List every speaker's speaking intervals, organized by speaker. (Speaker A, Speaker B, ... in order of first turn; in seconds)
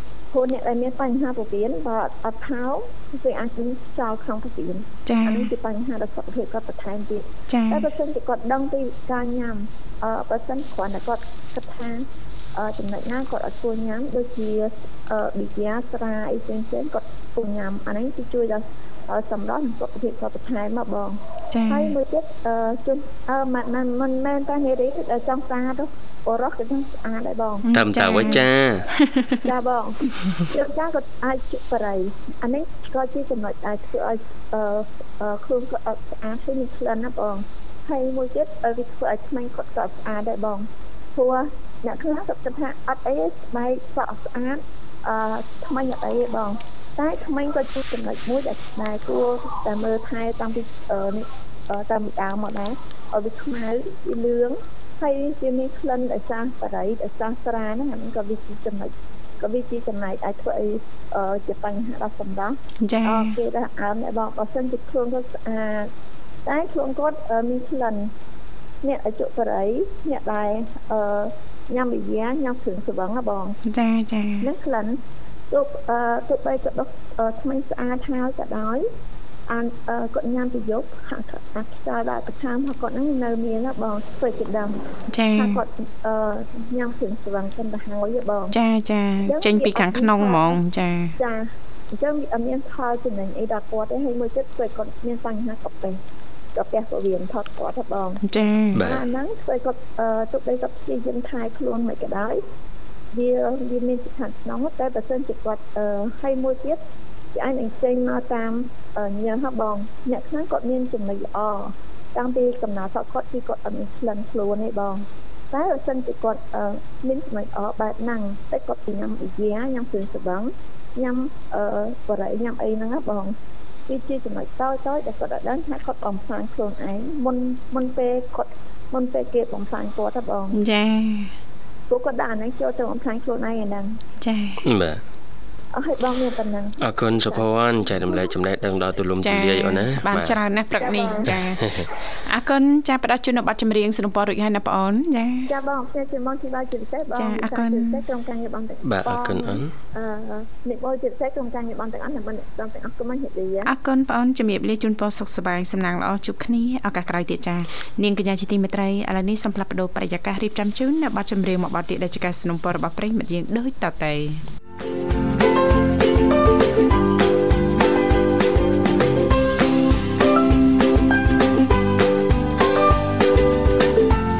Speaker A: 0.3-27.6, 29.4-65.9, 66.5-68.1, 68.8-73.6, 74.4-75.0, 75.5-78.9, 79.5-84.8, 85.3-88.5, 89.2-90.6, 91.2-96.0, 96.5-98.2, 98.8-102.4, 103.1-106.8, 107.3-123.3, 123.9-130.6, 131.9-134.0, 135.7-137.4, 140.8-141.3, 145.5-153.7
Speaker B: 5.0-5.5, 7.5-7.8, 21.5-21.9, 27.6-29.4, 62.8-63.4, 73.6-74.5, 85.1-85.6, 88.5-91.1, 98.2-98.8, 130.5-131.3, 134.2-134.6, 139.2-145.5, 147.1-148.0, 153.6-164.4
Speaker C: 27.7-28.9, 98.7-99.1, 134.6-135.0, 136.8-140.4, 141.2-141.9, 148.8-149.7